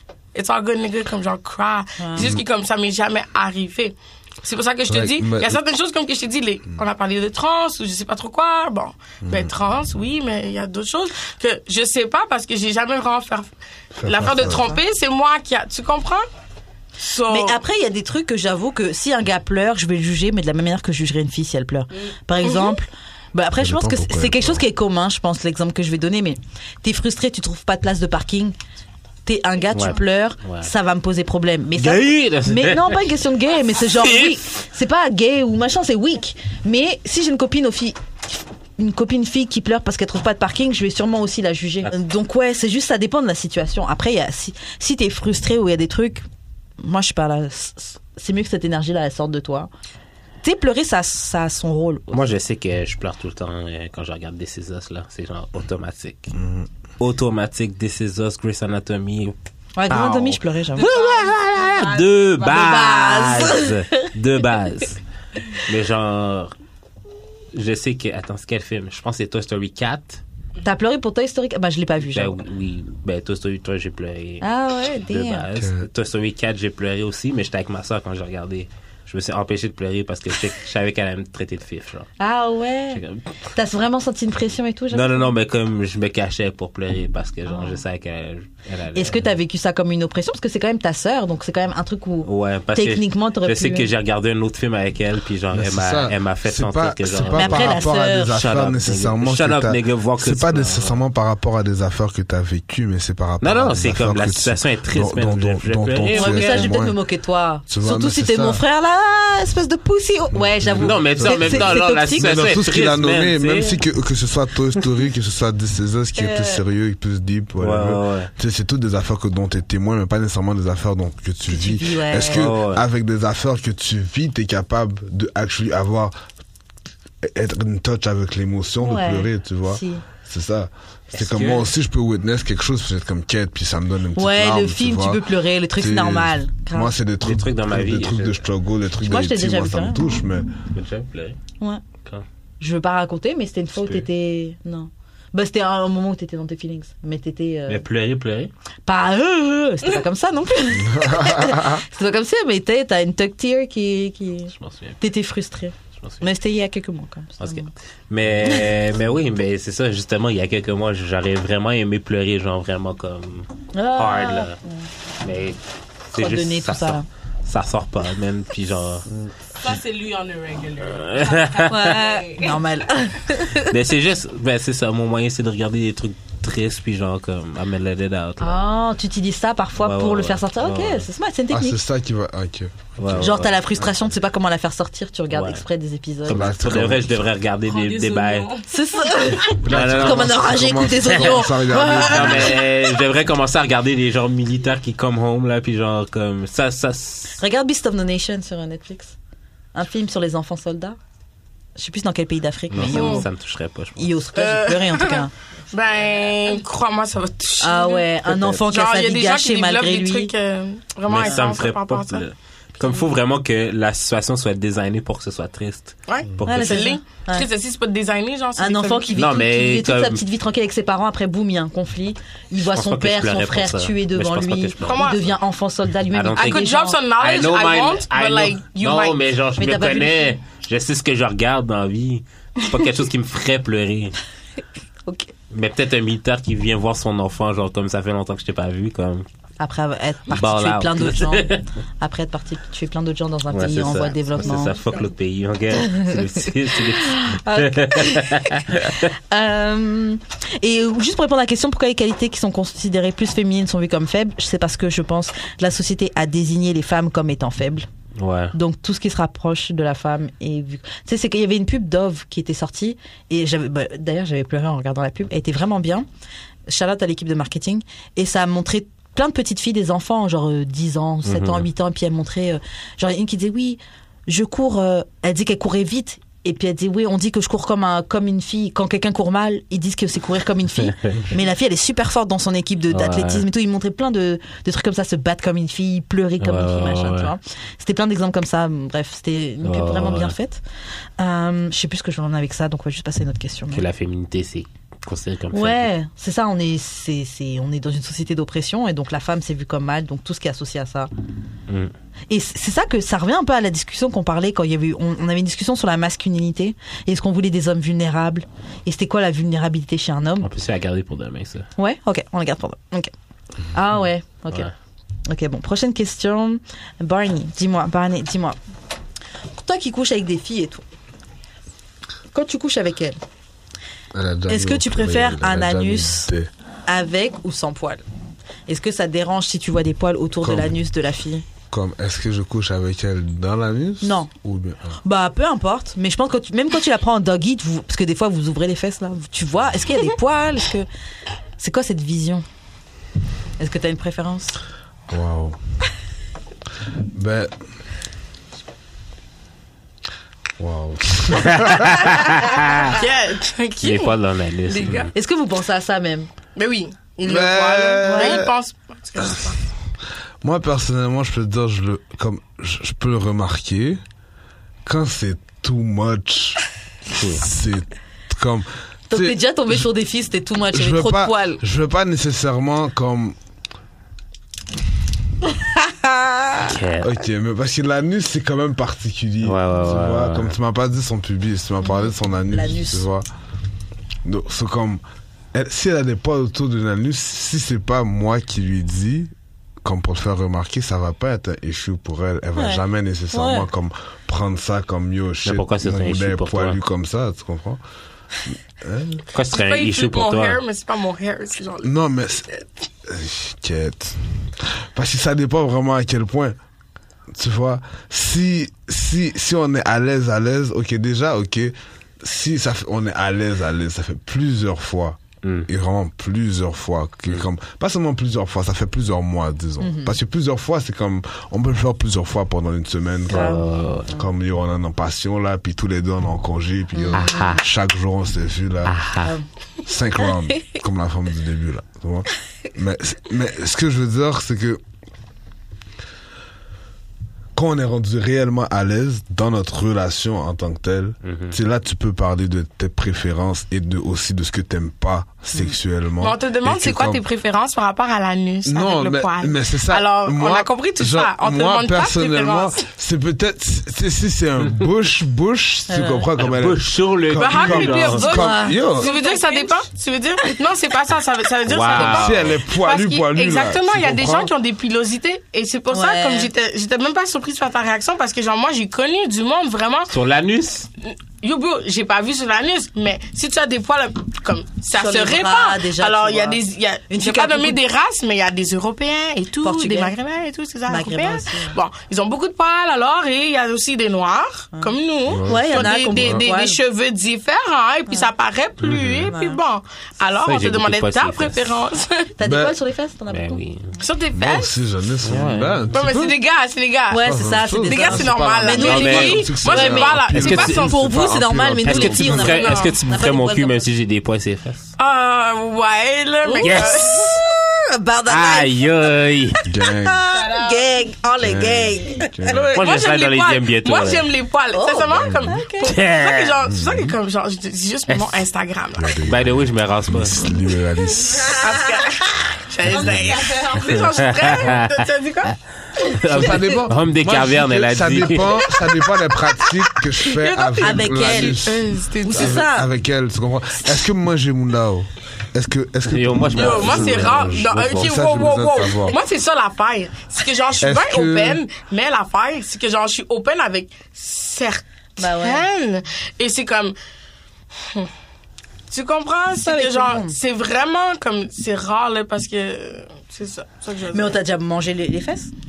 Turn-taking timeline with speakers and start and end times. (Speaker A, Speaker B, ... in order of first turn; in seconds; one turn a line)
Speaker A: 0.3-13.5
Speaker B: 2.0-2.3
Speaker C: 4.9-5.6
Speaker C: 9.2-9.5
Speaker C: 13.9-14.7
Speaker A: 14.1-16.3
Speaker A: 17.0-17.6
Speaker B: 17.3-28.6
Speaker A: 22.4-22.8
Speaker C: 23.6-24.6
Speaker B: 29.2-38.0
Speaker D: 29.7-30.7
Speaker D: 31.8-33.0
Speaker D: 34.0-34.4
Speaker B: 38.8-46.2
Speaker B: 46.8-49.7
Speaker B: 50.4-52.3
Speaker D: 52.1-56.4
Speaker C: 56.4-56.7
Speaker D: 57.0-59.4
Speaker B: 59.8-60.9
Speaker D: 59.9-65.0
Speaker E: 60.8-62.1
Speaker B: 62.4-64.1
Speaker D: 65.7-66.5
Speaker D: 67.5-70.2
Speaker B: 70.6-72.4
Speaker D: 72.1-74.5
Speaker B: 74.4-75.5
Speaker D: 75.1-82.1
Speaker C: 75.6-75.9
Speaker B: 82.2-83.0
Speaker D: 82.9-83.2
Speaker B: 83.5-85.3
Speaker D: 84.9-89.3
Speaker B: 87.5-87.8
Speaker B: 88.9-93.9
Speaker D: 92.2-101.0
Speaker C: 95.5-107.0
Speaker B: 97.3-98.3
Speaker D: 103.4-106.7
Speaker B: 106.1-112.4
Speaker C: 107.7-108.6
Speaker C: 110.3-126.1
Speaker D: 110.8-113.8
Speaker B: 116.2-116.6
Speaker D: 117.6-118.3
Speaker B: 121.5-122.4
Speaker D: 122.3-122.8
Speaker C: 127.2-135.2
Speaker B: 128.8-130.0
Speaker D: 131.1-131.7
Speaker B: 134.2-137.0
Speaker C: 135.8-140.6
Speaker D: 137.2-138.5
Speaker B: 139.0-140.1
Speaker D: 140.7-141.4
Speaker B: 142.6-147.8
Speaker D: 147.7-148.5
Speaker B: 148.9-157.7
Speaker C: 150.8-151.8
Speaker D: 154.5-155.0
Speaker D: 157.4-164.6
Speaker B: 163.7-164.9
Speaker D: 165.2-165.6
Speaker D: 166.1-169.1
Speaker B: 166.1-167.1
Speaker E: 169.6-172.7
Speaker D: 171.0-171.9
Speaker B: 171.7-173.7
Speaker D: 173.6-178.6
Speaker B: 178.4-181.8
Speaker D: 179.8-181.1
Speaker C: 181.5-183.3
Speaker D: 183.0-183.6
Speaker B: 183.2-186.6
Speaker D: 185.3-185.6
Speaker D: 186.3-188.5
Speaker C: 186.3-187.2
Speaker E: 187.7-188.7
Speaker B: 188.7-192.6
Speaker D: 189.5-197.3
Speaker C: 189.6-192.6
Speaker B: 197.4-199.2
Speaker B: 199.7-201.0
Speaker B: 201.8-203.3
Speaker D: 202.7-204.1
Speaker A: 202.8-203.3
Speaker B: 204.0-205.3
Speaker A: 204.3-212.2
Speaker B: 207.6-210.3
Speaker D: 211.1-216.9
Speaker A: 216.1-219.2
Speaker B: 216.5-217.5
Speaker B: 218.6-227.0
Speaker D: 219.2-220.2
Speaker D: 222.7-225.3
Speaker A: 224.8-225.2
Speaker D: 226.1-234.2
Speaker A: 226.4-229.2
Speaker B: 229.6-230.3
Speaker D: 235.5-239.2
Speaker B: 239.6-244.8
Speaker D: 240.3-241.6
Speaker D: 243.5-249.1
Speaker B: 245.8-257.9
Speaker D: 258.2-258.5
Speaker B: 258.5-266.1
Speaker B: 266.7-290.6
Speaker D: 271.3-271.7
Speaker D: 280.8-281.2
Speaker D: 282.9-283.4
Speaker D: 286.4-287.3
Speaker D: 289.6-290.3
Speaker B: 291.2-293.8
Speaker D: 293.7-295.9
Speaker B: 295.5-301.1
Speaker B: 302.3-310.5
Speaker D: 310.4-311.7
Speaker B: 311.8-313.1
Speaker B: 313.7-314.7
Speaker B: 315.3-318.6
Speaker B: 319.6-320.8
Speaker B: 322.3-323.2
Speaker C: 324.1-326.5
Speaker B: 324.5-326.3
Speaker B: 326.9-328.0
Speaker B: 328.7-331.4
Speaker C: 330.4-330.8
Speaker C: 331.7-335.0
Speaker B: 334.0-334.3
Speaker B: 335.0-340.9
Speaker B: 341.6-342.4
Speaker B: 343.6-344.6
Speaker C: 345.1-345.6
Speaker C: 347.1-347.5
Speaker C: 350.6-352.1
Speaker D: 351.4-353.0
Speaker A: 352.8-354.2
Speaker D: 353.8-355.1
Speaker A: 354.7-355.1
Speaker B: 355.1-356.3
Speaker A: 356.6-359.6
Speaker C: 357.2-358.5
Speaker B: 358.1-358.4
Speaker C: 360.4-364.0
Speaker C: 364.9-366.6
Speaker D: 367.2-367.4
Speaker C: 367.2-369.8
Speaker B: 369.1-371.6
Speaker C: 370.7-373.4
Speaker D: 376.6-377.1
Speaker C: 377.0-383.3
Speaker D: 379.4-380.5
Speaker B: 381.9-383.1
Speaker C: 384.2-385.0
Speaker C: 385.5-389.3
Speaker C: 389.8-397.8
Speaker B: 392.6-393.7
Speaker D: 395.4-396.8
Speaker C: 398.5-399.2
Speaker D: 399.3-400.6
Speaker A: 399.5-401.9
Speaker C: 401.8-402.5
Speaker C: 403.1-404.2
Speaker C: 404.9-406.6
Speaker C: 407.3-429.0
Speaker D: 415.4-415.7
Speaker B: 419.8-420.2
Speaker D: 423.3-424.1
Speaker B: 423.3-424.2
Speaker B: 426.9-427.6
Speaker D: 427.1-427.6
Speaker D: 428.9-429.4
Speaker C: 429.9-434.8
Speaker C: 437.6-447.2
Speaker D: 441.2-441.6
Speaker A: 446.2-452.8
Speaker C: 448.7-459.1
Speaker B: 455.9-456.3
Speaker D: 456.4-458.4
Speaker A: 457.4-470.1
Speaker B: 458.3-458.8
Speaker E: 458.8-459.8
Speaker D: 461.7-462.5
Speaker C: 461.9-464.5
Speaker B: 465.9-466.5
Speaker D: 470.1-470.9
Speaker A: 471.0-492.3
Speaker B: 474.9-477.8
Speaker B: 479.6-480.1
Speaker B: 480.9-481.8
Speaker B: 484.7-486.8
Speaker C: 485.3-486.4
Speaker C: 488.8-489.1
Speaker D: 488.9-489.2
Speaker B: 489.3-489.6
Speaker D: 490.4-491.8
Speaker B: 492.4-493.6
Speaker C: 492.4-492.8
Speaker D: 493.3-493.9
Speaker A: 494.0-494.7
Speaker C: 494.4-496.4
Speaker D: 495.2-495.8
Speaker A: 495.9-501.0
Speaker B: 497.1-503.8
Speaker C: 497.2-502.6
Speaker D: 498.7-500.9
Speaker D: 501.8-504.9
Speaker A: 502.3-502.9
Speaker A: 505.0-507.4
Speaker B: 506.4-508.8
Speaker D: 506.6-507.1
Speaker D: 508.3-509.6
Speaker C: 509.7-510.2
Speaker B: 509.8-512.4
Speaker E: 510.3-510.8
Speaker C: 511.4-512.6
Speaker A: 512.5-519.3
Speaker D: 512.7-514.3
Speaker B: 514.7-515.9
Speaker C: 515.1-515.5
Speaker D: 515.8-516.5
Speaker C: 516.7-517.1
Speaker D: 518.1-518.4
Speaker C: 519.0-521.5
Speaker D: 519.2-520.5
Speaker A: 521.3-526.6
Speaker B: 521.4-521.8
Speaker C: 522.9-523.5
Speaker E: 523.1-523.9
Speaker D: 523.9-525.1
Speaker D: 526.0-528.8
Speaker C: 526.3-539.2
Speaker A: 530.2-532.6
Speaker B: 530.8-531.6
Speaker B: 532.2-532.9
Speaker D: 536.1-538.6
Speaker A: 536.5-547.0
Speaker C: 540.8-541.6
Speaker B: 545.2-545.7
Speaker A: 547.8-548.1
Speaker A: 548.9-554.4
Speaker B: 549.6-550.4
Speaker B: 554.1-555.5